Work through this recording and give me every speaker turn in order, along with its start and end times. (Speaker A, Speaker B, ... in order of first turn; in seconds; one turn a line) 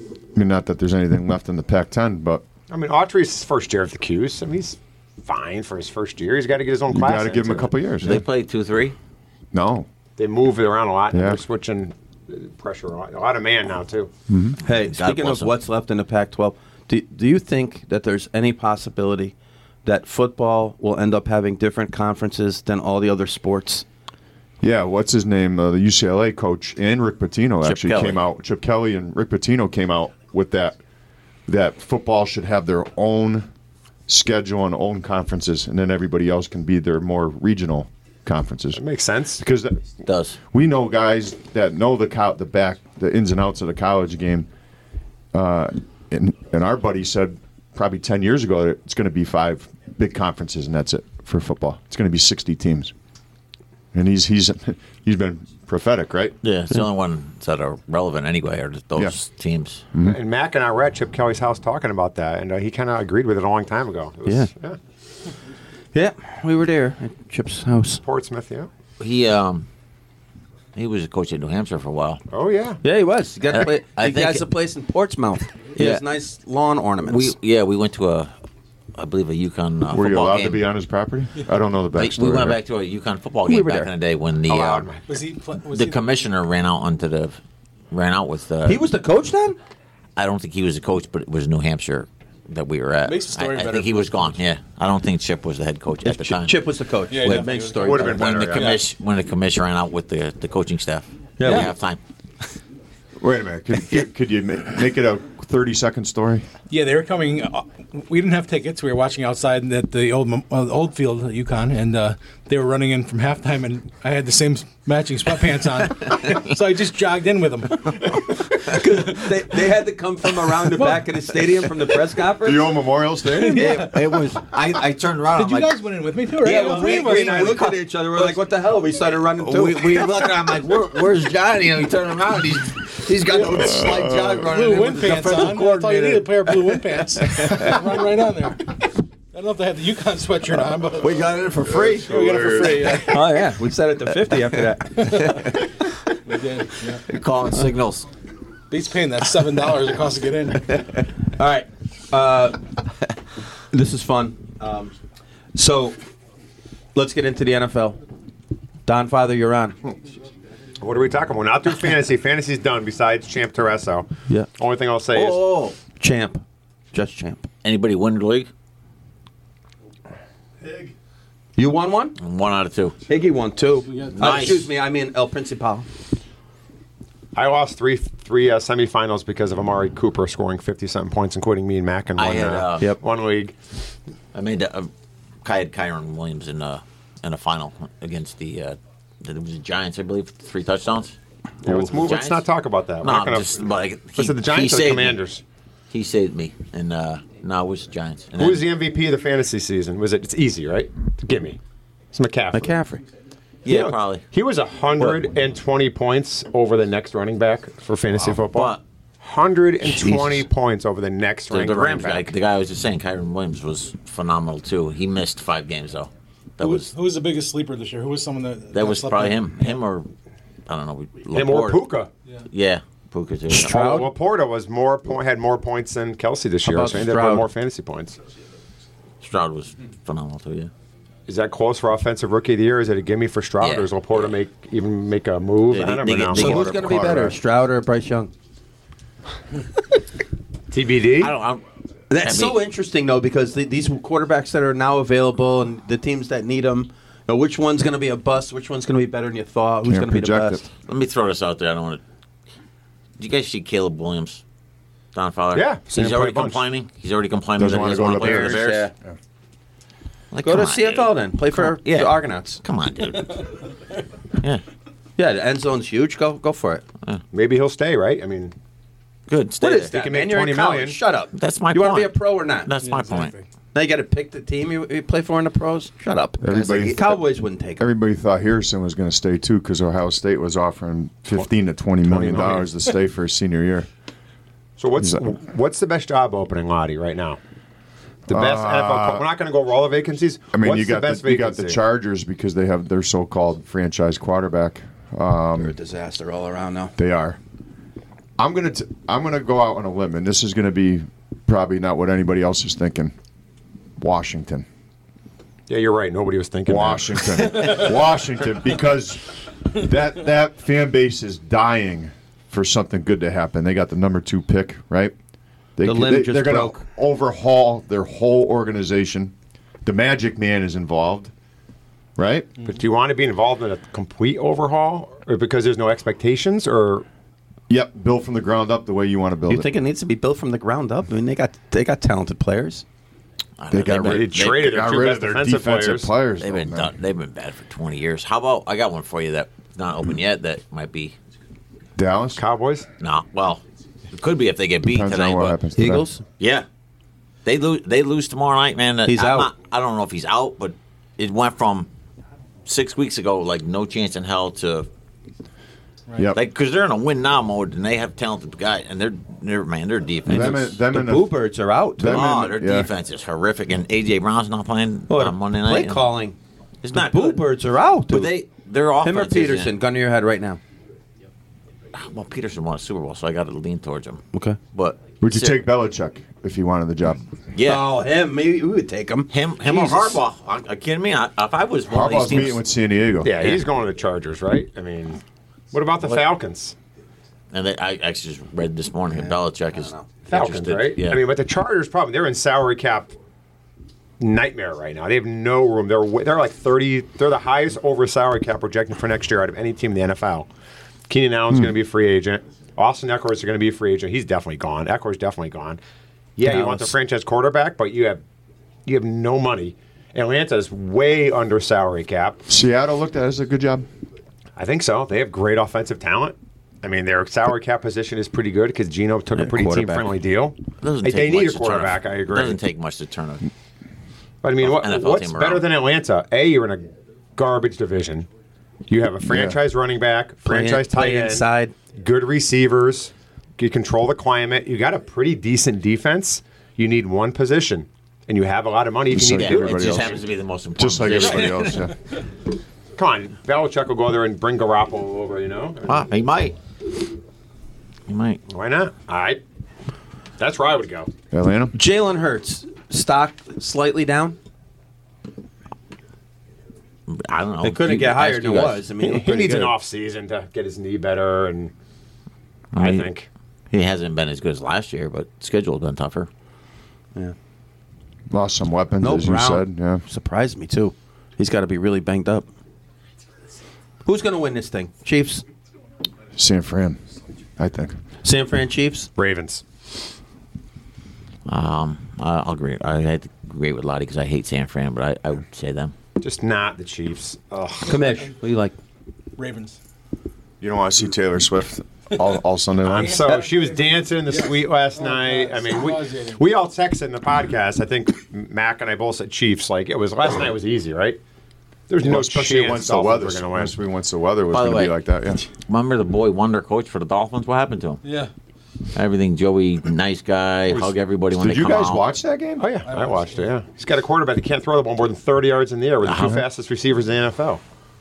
Speaker A: 0.3-2.4
Speaker B: 2.7-7.7
Speaker A: 6.9-8.2
Speaker C: 8.0-8.9
Speaker A: 9.5-9.9
Speaker B: 10.2-14.1
Speaker A: 11.1-11.4
Speaker A: 14.3-14.6
Speaker D: 14.6-19.3
Speaker C: 14.7-15.5
Speaker D: 19.8-23.8
Speaker A: 24.6-30.8
Speaker C: 27.6-28.2
Speaker A: 31.5-33.5
Speaker A: 34.1-38.8
Speaker B: 38.7-39.4
Speaker A: 39.4-39.8
Speaker C: 40.0-40.4
Speaker A: 40.5-44.5
Speaker A: 45.3-52.9
Speaker A: 53.9-56.4
Speaker C: 56.4-59.8
Speaker B: 60.0-64.8
Speaker D: 65.9-68.0
Speaker B: 68.0-68.7
Speaker C: 69.0-69.7
Speaker C: 70.7-72.2
Speaker B: 72.3-72.8
Speaker D: 72.8-77.3
Speaker C: 73.5-74.4
Speaker C: 75.8-76.0
Speaker C: 77.0-78.3
Speaker C: 79.0-80.7
Speaker A: 79.9-82.6
Speaker C: 82.0-84.9
Speaker D: 83.5-83.9
Speaker B: 84.5-85.0
Speaker E: 85.1-86.0
Speaker C: 85.7-87.4
Speaker C: 87.9-88.8
Speaker D: 88.6-89.6
Speaker C: 90.2-96.5
Speaker E: 93.0-94.2
Speaker D: 96.0-98.3
Speaker E: 97.1-98.0
Speaker C: 97.2-102.0
Speaker B: 97.8-98.8
Speaker E: 98.5-98.8
Speaker D: 101.4-101.7
Speaker A: 103.2-106.5
Speaker E: 106.7-119.2
Speaker D: 118.6-122.7
Speaker E: 120.7-121.0
Speaker A: 122.4-123.9
Speaker E: 123.3-124.2
Speaker C: 123.5-125.8
Speaker E: 125.3-127.7
Speaker D: 126.4-130.1
Speaker B: 126.8-127.2
Speaker C: 129.4-136.3
Speaker E: 133.3-141.2
Speaker A: 133.7-134.3
Speaker C: 137.2-137.6
Speaker C: 141.0-142.9
Speaker A: 141.7-142.9
Speaker E: 142.0-143.3
Speaker D: 143.0-145.5
Speaker E: 145.0-145.5
Speaker E: 146.2-147.0
Speaker C: 147.1-148.1
Speaker E: 148.7-150.8
Speaker D: 151.0-152.6
Speaker D: 153.7-154.9
Speaker D: 155.5-156.0
Speaker D: 156.9-158.0
Speaker D: 158.8-159.8
Speaker B: 160.8-165.5
Speaker C: 165.1-165.8
Speaker D: 166.0-166.4
Speaker D: 166.9-167.5
Speaker C: 167.6-168.5
Speaker D: 171.6-172.2
Speaker C: 172.2-173.0
Speaker D: 173.1-175.8
Speaker E: 173.8-174.5
Speaker C: 174.1-174.7
Speaker B: 177.3-183.6
Speaker C: 182.2-182.8
Speaker C: 184.3-184.9
Speaker C: 185.4-191.2
Speaker B: 191.6-193.6
Speaker C: 191.7-192.5
Speaker C: 193.0-195.2
Speaker B: 194.2-195.4
Speaker C: 195.9-198.7
Speaker B: 198.4-201.6
Speaker B: 202.1-202.8
Speaker D: 202.5-203.0
Speaker C: 203.6-204.2
Speaker B: 203.7-212.3
Speaker C: 208.4-208.8
Speaker D: 209.9-210.3
Speaker C: 211.5-216.9
Speaker E: 216.6-219.8
Speaker C: 218.7-220.1
Speaker C: 220.7-221.9
Speaker B: 221.3-222.1
Speaker C: 222.5-224.0
Speaker D: 223.5-224.1
Speaker B: 223.5-228.2
Speaker D: 226.6-227.5
Speaker C: 229.2-230.7
Speaker B: 231.3-236.7
Speaker C: 233.6-234.3
Speaker C: 235.7-237.0
Speaker D: 236.3-238.3
Speaker A: 236.4-237.4
Speaker B: 240.7-241.3
Speaker C: 241.2-241.6
Speaker D: 242.1-250.6
Speaker C: 242.2-242.6
Speaker A: 249.9-250.6
Speaker C: 250.8-252.0
Speaker C: 253.2-254.4
Speaker C: 255.1-258.9
Speaker B: 255.5-256.6
Speaker A: 257.6-259.1
Speaker D: 258.1-258.9
Speaker C: 260.3-263.5
Speaker D: 260.4-262.6
Speaker D: 265.2-266.8
Speaker B: 267.3-268.5
Speaker C: 269.3-269.9
Speaker D: 269.6-272.7
Speaker B: 269.9-271.0
Speaker C: 271.3-273.3
Speaker E: 272.8-273.4
Speaker D: 273.7-277.8
Speaker A: 276.4-277.0
Speaker C: 276.5-277.1
Speaker A: 277.8-283.9
Speaker B: 282.0-282.7
Speaker B: 284.8-287.4
Speaker A: 288.3-289.2
Speaker B: 288.3-291.8
Speaker A: 290.5-295.8
Speaker D: 295.6-296.9
Speaker A: 297.0-297.4
Speaker A: 298.4-303.1
Speaker A: 304.0-304.6
Speaker B: 305.7-307.6
Speaker A: 306.6-315.1
Speaker A: 315.8-319.3
Speaker D: 315.8-316.8
Speaker A: 319.8-321.3
Speaker A: 322.2-322.6
Speaker B: 322.6-327.1
Speaker A: 327.7-329.7
Speaker D: 329.5-332.8
Speaker C: 333.6-334.8
Speaker A: 333.7-336.9
Speaker B: 334.0-336.1
Speaker C: 336.4-341.1
Speaker A: 342.0-342.4
Speaker B: 342.4-342.9
Speaker C: 343.0-345.6
Speaker A: 344.8-346.1
Speaker D: 345.8-346.2
Speaker C: 346.4-346.6
Speaker C: 347.4-351.9
Speaker D: 349.1-349.5
Speaker C: 352.6-354.9
Speaker C: 356.3-360.8
Speaker A: 360.2-361.4
Speaker D: 360.4-362.4
Speaker A: 362.0-362.9
Speaker C: 362.0-366.1
Speaker D: 365.1-366.4
Speaker C: 366.8-367.4
Speaker D: 366.9-368.4
Speaker C: 368.1-369.7
Speaker D: 369.0-370.6
Speaker C: 371.9-375.6
Speaker D: 374.3-374.6
Speaker A: 375.2-377.2
Speaker C: 377.5-377.9
Speaker D: 377.6-380.2
Speaker C: 379.3-382.6
Speaker A: 381.9-383.3
Speaker B: 383.2-385.2
Speaker C: 383.4-383.6
Speaker B: 385.7-386.7
Speaker C: 387.5-391.2
Speaker D: 389.8-390.0
Speaker B: 390.3-393.1
Speaker B: 394.2-400.5
Speaker B: 401.1-405.8
Speaker B: 406.4-408.2
Speaker D: 406.5-406.9
Speaker B: 408.9-412.4
Speaker A: 412.5-413.9
Speaker B: 414.6-422.6
Speaker D: 419.3-420.1
Speaker C: 420.8-423.5
Speaker B: 424.4-428.3
Speaker C: 424.6-425.7
Speaker B: 428.9-440.2
Speaker A: 429.3-429.6
Speaker D: 430.4-431.7
Speaker A: 439.1-440.2
Speaker C: 439.3-441.8
Speaker A: 440.8-441.9
Speaker B: 442.9-446.0
Speaker C: 445.9-446.6
Speaker C: 448.1-448.4
Speaker B: 448.5-449.4
Speaker B: 450.4-451.1
Speaker A: 451.3-451.7
Speaker D: 451.7-454.4
Speaker C: 457.1-458.8
Speaker D: 457.6-459.7
Speaker B: 459.0-461.7
Speaker C: 462.7-463.1
Speaker B: 462.8-463.3
Speaker C: 463.7-466.3
Speaker A: 468.3-470.0
Speaker D: 469.0-472.5
Speaker D: 474.0-475.4
Speaker A: 476.4-477.0
Speaker A: 477.6-477.9
Speaker D: 478.2-479.1
Speaker B: 479.1-479.6
Speaker C: 481.4-485.9
Speaker B: 486.2-488.2
Speaker D: 487.9-488.8
Speaker E: 489.4-489.8
Speaker A: 490.6-493.3
Speaker B: 492.8-501.2
Speaker E: 493.0-496.4
Speaker B: 501.9-503.7
Speaker A: 502.0-505.4
Speaker C: 504.5-505.0
Speaker C: 505.5-508.0
Speaker E: 508.0-508.3
Speaker C: 508.9-512.0
Speaker A: 511.3-512.7
Speaker B: 512.6-517.6
Speaker E: 512.9-513.4
Speaker C: 516.0-516.4